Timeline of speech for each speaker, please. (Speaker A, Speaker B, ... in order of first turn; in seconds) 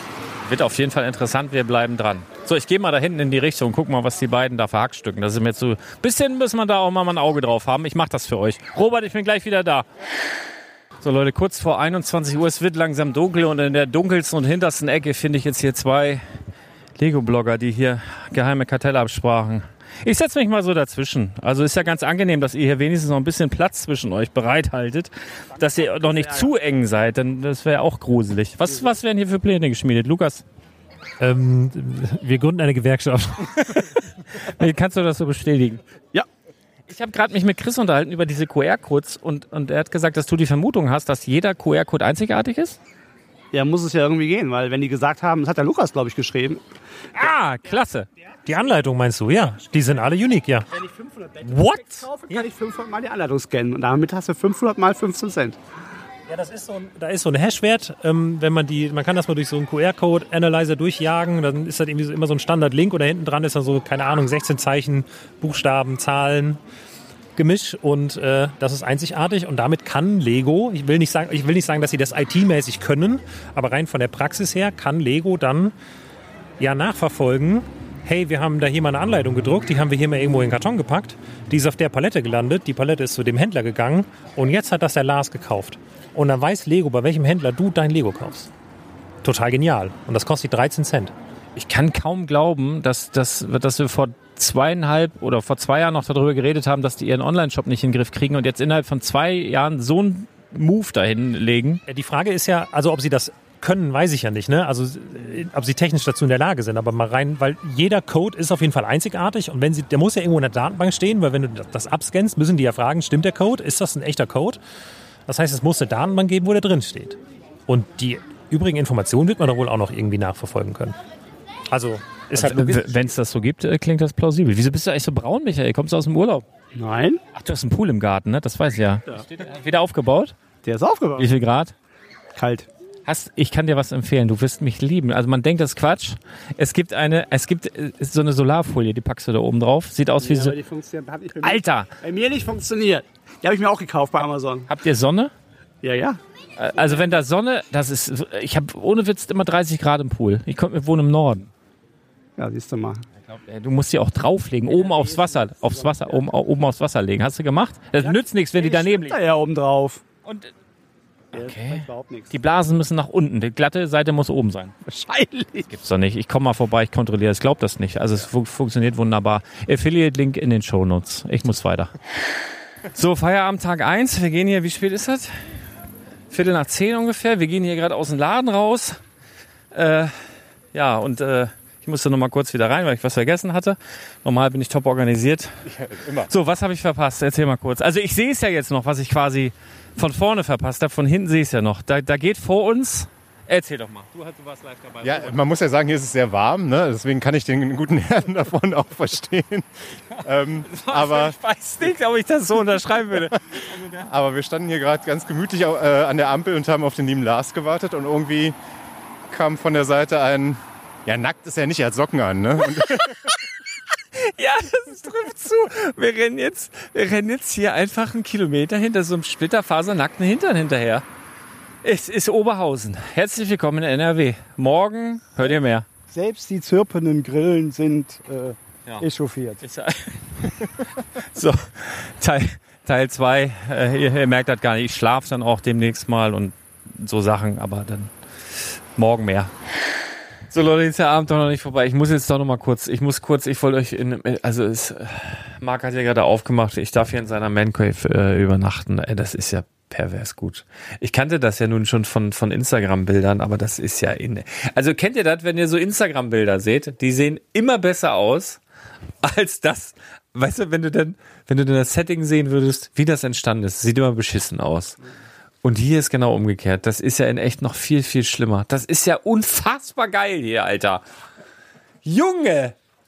Speaker A: 0.4-9.9, 11.0-16.2, 17.0-30.4, 34.4-35.8, 36.9-42.8, 47.1-48.1, 51.5-52.1, 91.6-101.8, 122.3-126.4, 127.3-130.4, 131.2-131.7, 133.1-140.6, 141.4-141.9, 144.7-145.3, 146.6-151.5, 153.3-159.2, 160.2-160.5, 161.3-164.7, 165.7-171.9, 172.9-175.3, 176.3-179.0, 179.7-180.1, 180.7-185.6, 186.3-195.3, 200.6-204.1, 212.9-213.3, 214.1-221.1, 221.8-225.9, 229.6-238.1, 238.9-239.5, 240.5-258.6, 259.2-265.0, 265.6-271.0, 272.1-272.8
Speaker B: 31.2-33.9, 48.4-50.7, 56.3-66.6, 67.4-75.7, 76.6-88.5, 89.2-91.1, 101.9-114.6, 115.3-121.0, 121.7-122.9
Speaker C: 43.5-46.6, 50.8-55.6, 126.7-127.2, 130.6-131.3, 132.4-132.7, 140.2-144.7, 145.8-146.2, 152.4-153.0, 154.8-156.2, 158.0-160.0, 161.3-162.3, 164.9-165.6
Speaker D: 185.7-186.3, 195.0-199.7, 200.2-201.4, 204.0-208.6, 209.3-213.2
Speaker E: 226.1-229.6